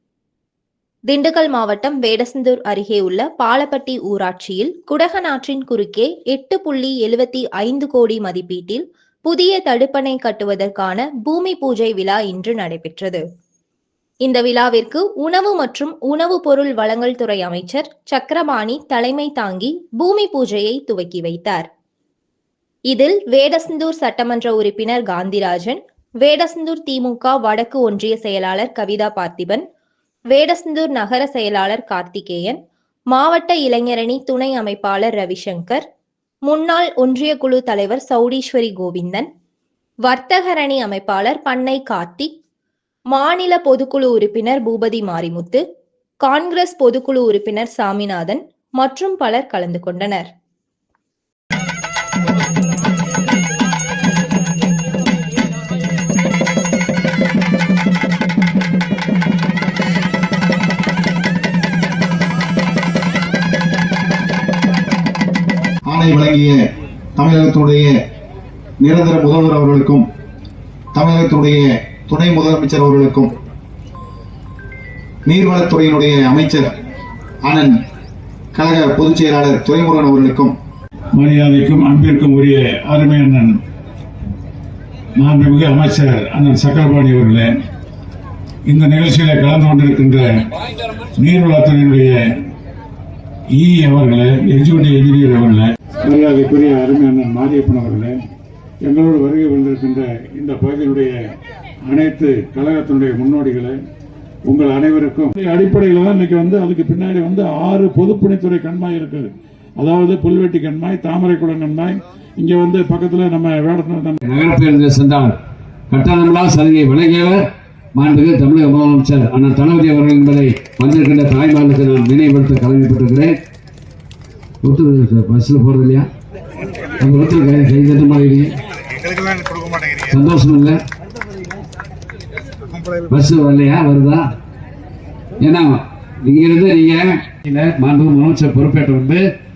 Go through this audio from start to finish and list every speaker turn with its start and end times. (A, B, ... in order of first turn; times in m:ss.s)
0:01.1-0:13.2 A
0:14.2-0:21.7 A
0:22.9-0:29.6 A
0:30.3-0:32.6 A
0:33.1-0:35.8 A
0:36.4-0:39.3 A
0:40.0-0:42.3 A
0:43.1-0:45.6 A
0:46.2-0:50.3 A
1:05.9-1:06.6 B
1:07.2-1:07.9 B
1:08.8-1:10.0 B
1:10.9-1:13.3 B
1:15.2-1:16.7 B
1:17.4-1:17.8 B
1:18.5-1:20.5 B
1:21.1-1:23.6 C
1:25.2-1:27.5 C
1:28.7-1:30.4 C
1:31.2-1:32.2 C
1:33.5-1:38.2 C
1:38.8-1:41.2 C
1:41.8-1:43.8 C
1:44.5-1:54.2 C
1:54.2-1:55.3 D
1:55.9-1:57.4 D
1:57.9-2:03.3 D
2:04.6-2:06.1 D
2:07.0-2:08.5 D
2:09.2-2:09.5 B
2:10.1-2:10.8 D
2:13.1-2:14.3 D
2:15.4-2:19.2 D